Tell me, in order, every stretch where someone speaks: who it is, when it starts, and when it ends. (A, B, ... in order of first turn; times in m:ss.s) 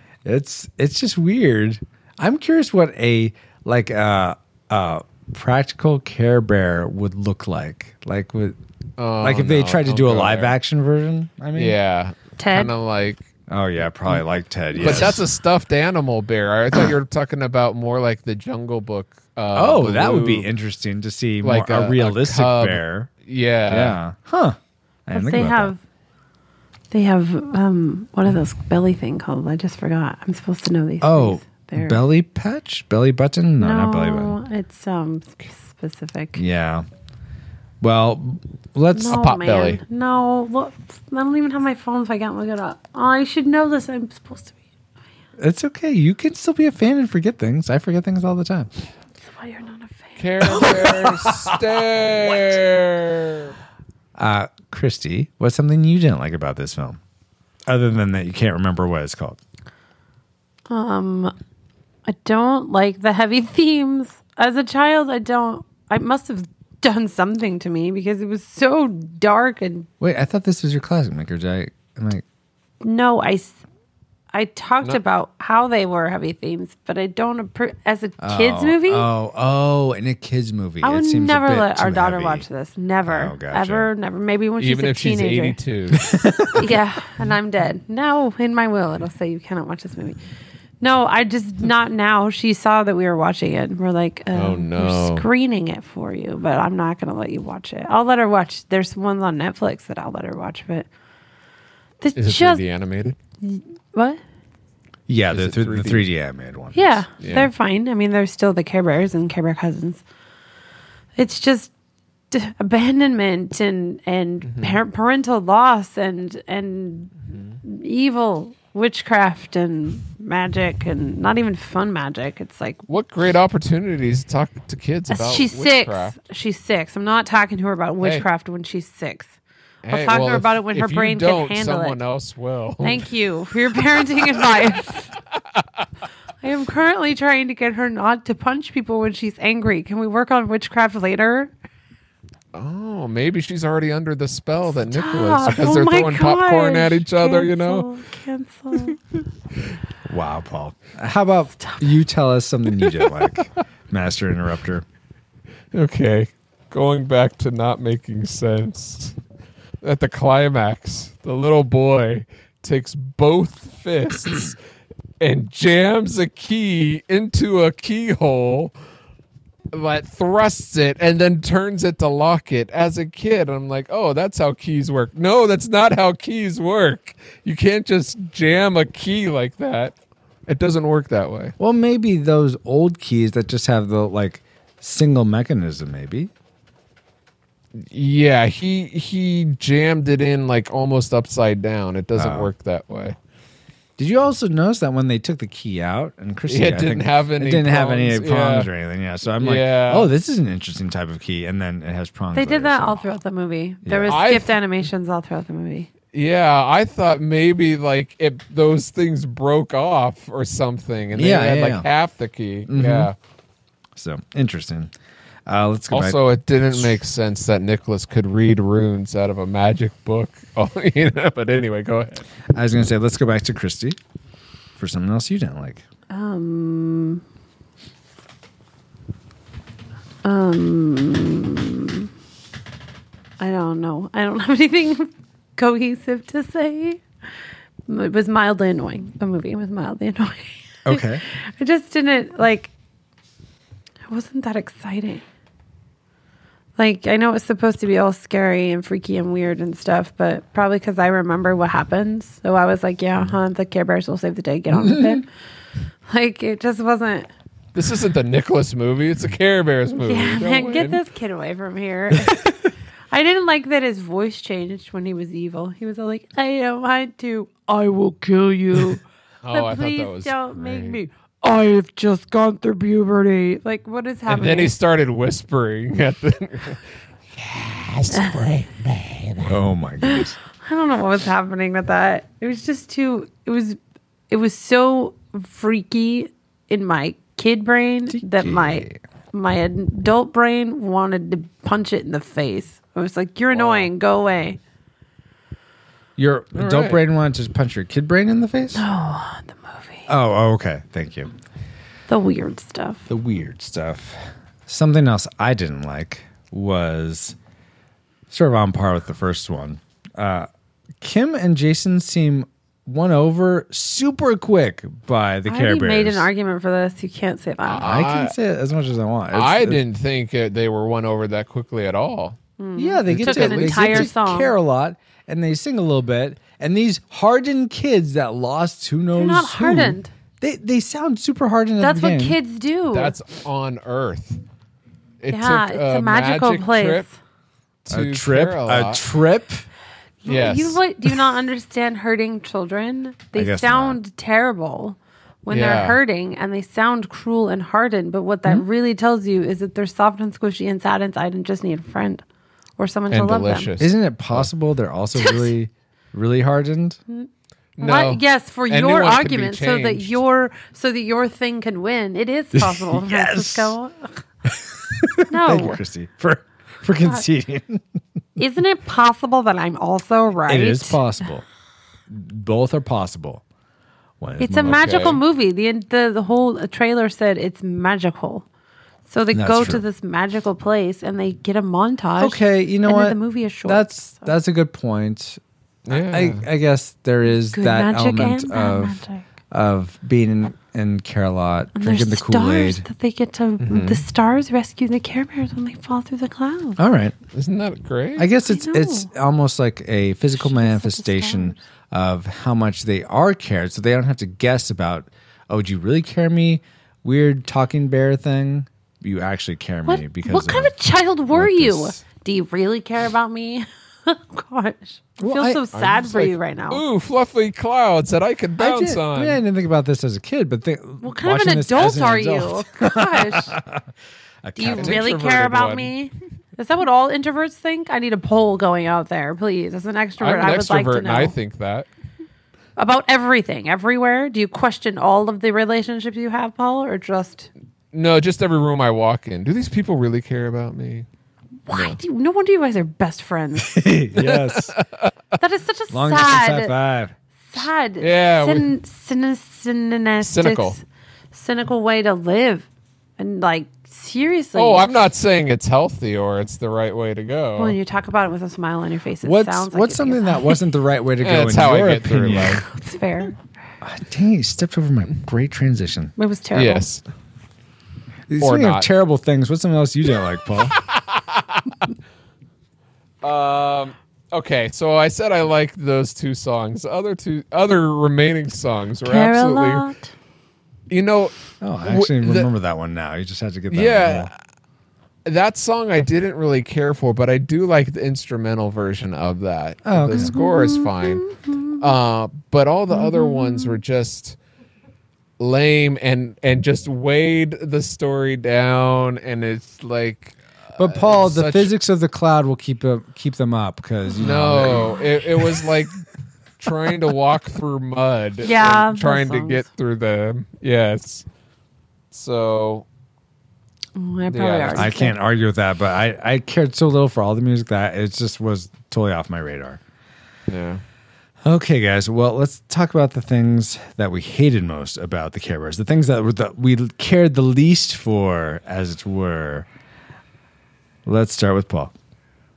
0:00.2-0:08.6 A
0:09.0-0:10.5 B
0:09.2-0:11.8 A
0:11.5-0:13.2 B
0:12.4-0:12.7 C
0:13.5-0:15.2 A
0:14.8-0:20.5 B
0:19.5-0:23.1 A
0:21.4-0:24.0 B
0:23.7-0:25.7 A
0:25.1-0:25.8 C
0:26.9-0:32.0 C
0:31.0-0:34.3 A
0:33.6-0:36.4 C
0:36.4-0:36.8 A
0:37.8-0:39.2 A
0:38.9-0:44.6 C
0:39.1-0:39.8 B
0:45.4-0:48.7 A
0:49.2-0:50.6 C
0:50.2-0:53.5 B
0:50.4-0:52.5 A
0:54.2-0:57.0 A
0:57.7-0:59.4 A
1:00.7-1:01.3 C
1:02.0-1:09.9 C
1:10.0-1:12.2 A
1:12.8-1:13.6 C
1:14.3-1:19.1 C
1:18.2-1:22.4 A
1:20.8-1:25.6 C
1:23.0-1:23.9 A
1:24.6-1:26.0 B
1:26.0-1:26.7 A
1:26.6-1:30.2 C
1:30.8-1:40.9 C
1:34.3-1:35.2 B
1:42.0-1:42.6 C
1:42.2-1:43.2 B
1:43.4-1:44.2 C
1:45.1-1:47.0 A
1:45.3-1:46.1 B
1:46.7-1:50.0 C
1:47.2-1:47.5 B
1:51.2-1:51.7 C
1:52.3-1:57.1 C
1:54.4-1:54.8 B
1:57.6-2:02.8 C
2:02.9-2:06.2 B
2:05.1-2:09.3 C
2:08.0-2:08.2 B
2:09.8-2:13.1 B
2:09.9-2:12.0 C
2:12.8-2:15.1 C
2:16.4-2:21.5 C
2:22.5-2:27.9 B
2:24.9-2:29.0 C
2:30.0-2:34.8 A
2:35.7-2:39.2 B
2:39.8-2:44.6 B
2:45.2-2:48.7 B
2:49.7-2:59.9 B
3:00.5-3:01.5 B
3:01.6-3:06.3 A
3:07.8-3:13.2 B
3:12.2-3:12.5 A
3:14.0-3:23.2 A
3:16.5-3:18.7 B
3:19.4-3:20.1 B
3:22.3-3:25.9 C
3:23.8-3:24.2 A
3:24.1-3:24.6 B
3:26.1-3:33.1 B
3:31.1-3:31.9 A
3:32.7-3:33.1 A
3:34.0-3:34.9 A
3:35.5-3:36.2 A
3:35.9-3:42.3 B
3:42.5-3:44.0 A
3:44.8-3:45.8 A
3:46.1-3:47.2 C
3:50.2-3:52.1 C
3:53.4-3:57.0 C
3:57.9-4:02.7 C
4:00.8-4:01.2 A
4:04.1-4:05.2 C
4:06.8-4:15.2 C
4:14.7-4:15.2 A
4:16.1-4:17.3 C
4:17.7-4:21.0 B
4:20.0-4:22.5 C
4:22.1-4:22.5 A
4:23.1-4:34.7 C
4:29.4-4:31.0 B
4:34.3-4:36.8 B
4:37.3-4:39.6 B
4:39.4-4:40.4 A
4:40.1-4:43.8 C
4:44.3-4:54.6 C
4:48.1-4:49.0 A
4:53.5-4:53.9 B
4:56.2-4:58.8 A
4:56.5-4:57.0 B
4:58.7-5:00.1 C
5:00.1-5:01.3 A
5:02.1-5:03.0 C
5:03.1-5:07.4 A
5:08.3-5:10.5 A
5:11.0-5:16.3 A
5:15.5-5:17.9 C
5:17.6-5:18.3 B
5:17.8-5:19.8 A
5:19.3-5:22.4 B
5:22.6-5:24.5 C
5:22.8-5:32.4 A
5:23.1-5:24.1 B
5:29.1-5:30.1 C
5:31.8-5:33.1 C
5:32.9-5:34.4 B
5:35.2-5:37.0 B
5:35.3-5:37.1 C
5:37.8-5:39.0 B
5:37.9-5:39.7 A
5:40.2-5:52.2 C
5:40.2-5:40.8 B
5:43.3-5:44.0 A
5:45.5-5:46.0 B
5:52.8-5:53.7 C
5:53.1-5:54.5 B
5:53.8-5:57.0 A
5:55.2-5:55.5 C
5:57.8-6:00.2 B
5:57.8-6:04.2 C
6:02.5-6:03.8 A
6:04.5-6:07.8 A
6:05.3-6:05.8 C
6:08.4-6:11.0 C
6:10.5-6:11.4 A
6:12.1-6:13.4 A
6:14.2-6:15.1 A
6:14.4-6:18.4 C
6:14.6-6:15.2 B
6:19.1-6:24.3 C
6:19.3-6:19.8 A
6:22.2-6:32.8 A
6:25.9-6:26.5 B
6:27.3-6:29.2 C
6:31.7-6:36.8 C
6:33.6-6:34.0 B
6:36.8-6:37.1 A
6:37.3-6:38.3 B
6:38.2-6:50.7 A
6:38.4-6:39.1 C
6:40.3-6:41.6 C
6:49.8-6:56.8 C
6:51.3-6:52.0 A
6:55.2-6:55.6 A
6:55.7-6:59.4 B
6:58.6-7:03.9 A
7:01.0-7:03.5 C
7:04.4-7:05.1 A
7:04.6-7:11.3 C
7:04.6-7:05.9 B
7:10.2-7:11.9 B
7:12.8-7:17.5 C
7:17.9-7:21.1 B
7:21.7-7:23.9 C
7:21.7-7:22.0 B
7:23.6-7:24.8 A
7:24.2-7:25.1 B
7:25.4-7:26.7 C
7:25.9-7:27.2 A
7:27.5-7:32.7 C
7:28.0-7:28.7 B
7:30.2-7:30.8 B
7:33.2-7:34.9 C
7:34.6-7:37.8 B
7:37.6-7:40.6 C
7:39.2-7:42.6 A
7:41.2-7:42.6 B
7:42.7-7:43.4 C
7:43.8-7:46.1 A
7:46.2-7:46.8 C
7:46.5-7:47.0 B
7:48.3-7:50.8 A
7:48.4-7:48.9 B
7:50.7-7:51.7 B
7:53.2-7:59.9 B
7:59.0-8:00.1 C
8:00.9-8:01.3 B
8:01.6-8:04.3 A
8:01.8-8:02.5 B
8:03.7-8:04.4 B
8:05.2-8:14.4 B
8:09.8-8:10.3 A
8:10.2-8:11.8 C
8:12.9-8:13.8 C
8:15.4-8:21.7 B
8:20.8-8:25.7 A
8:24.2-8:26.0 B
8:26.6-8:31.2 B
8:28.4-8:29.6 C
8:32.1-8:32.8 B
8:34.0-8:35.1 C
8:34.3-8:34.9 B
8:34.7-8:39.8 A
8:40.5-8:40.8 B
8:41.4-8:49.7 A
8:51.0-8:51.9 A